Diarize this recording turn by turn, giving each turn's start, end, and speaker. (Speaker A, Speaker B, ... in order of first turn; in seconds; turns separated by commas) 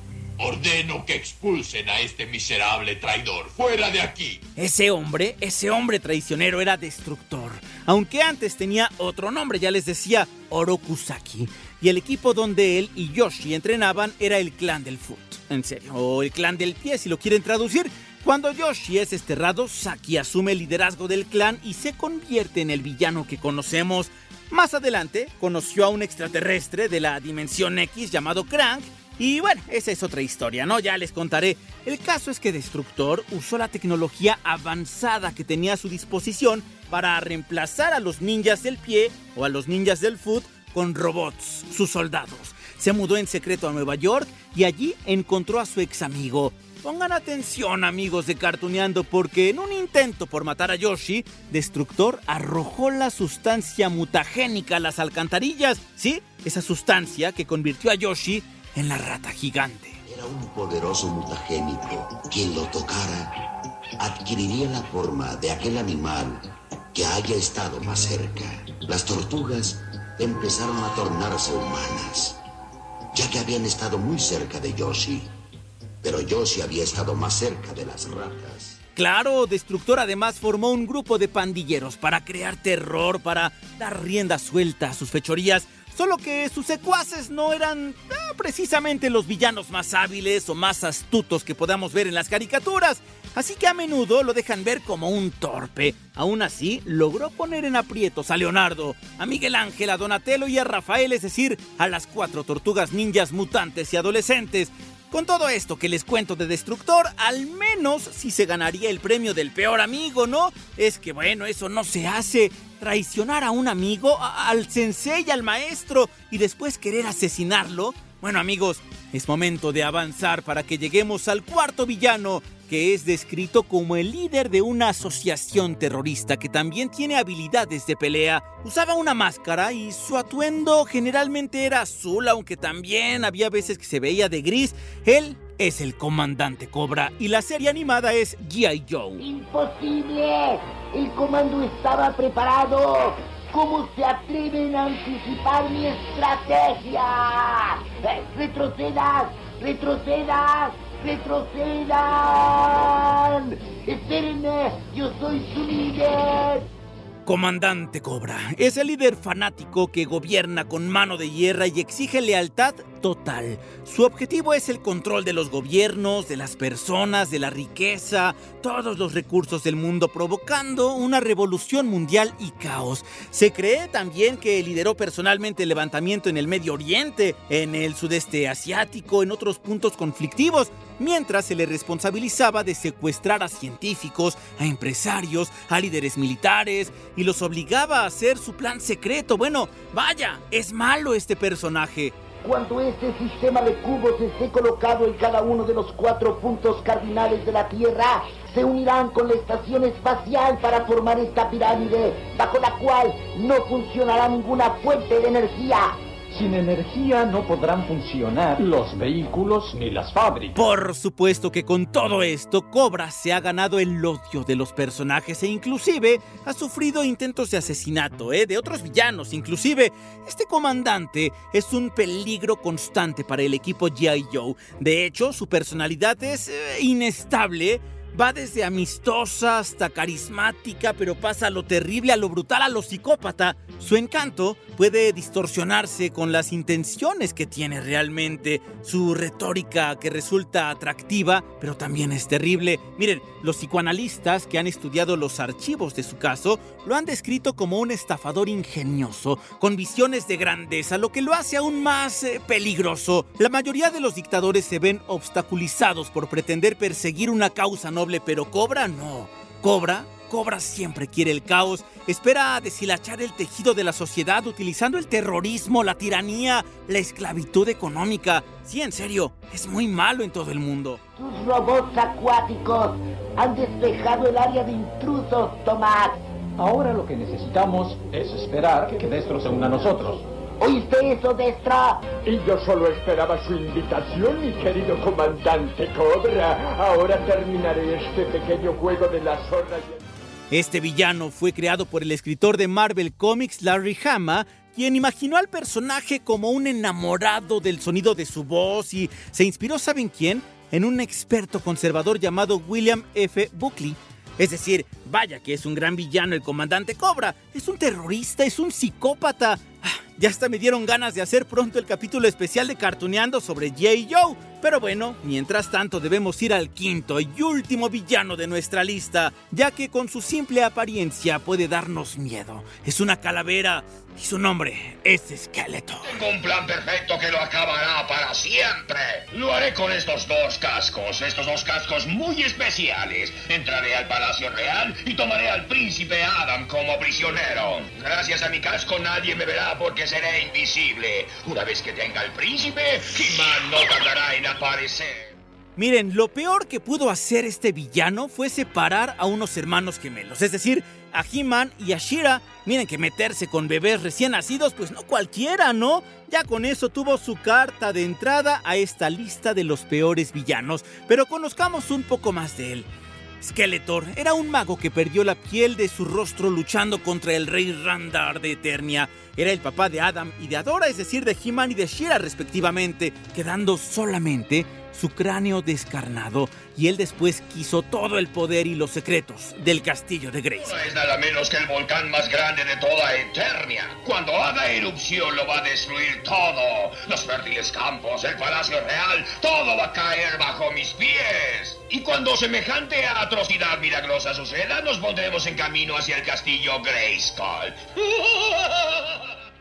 Speaker A: 0.4-4.4, Speaker B: 4.6-60.0, Speaker C: 60.0-63.3, Speaker C: 64.0-72.4, Speaker C: 73.1-75.3, Speaker C: 76.0-78.8, Speaker B: 78.9-139.2, Speaker D: 139.2-156.7, Speaker B: 157.2-192.2, Speaker D: 192.4-206.0, Speaker E: 206.3-210.6, Speaker B: 210.5-271.0, Speaker D: 271.2-276.2, Speaker E: 276.6-280.2, Speaker D: 280.6-282.1, Speaker F: 282.2-290.0, Speaker B: 290.5-326.2, Speaker G: 326.0-345.4, Speaker B: 345.8-362.9, Speaker B: 363.4-380.8, Speaker G: 380.5-399.1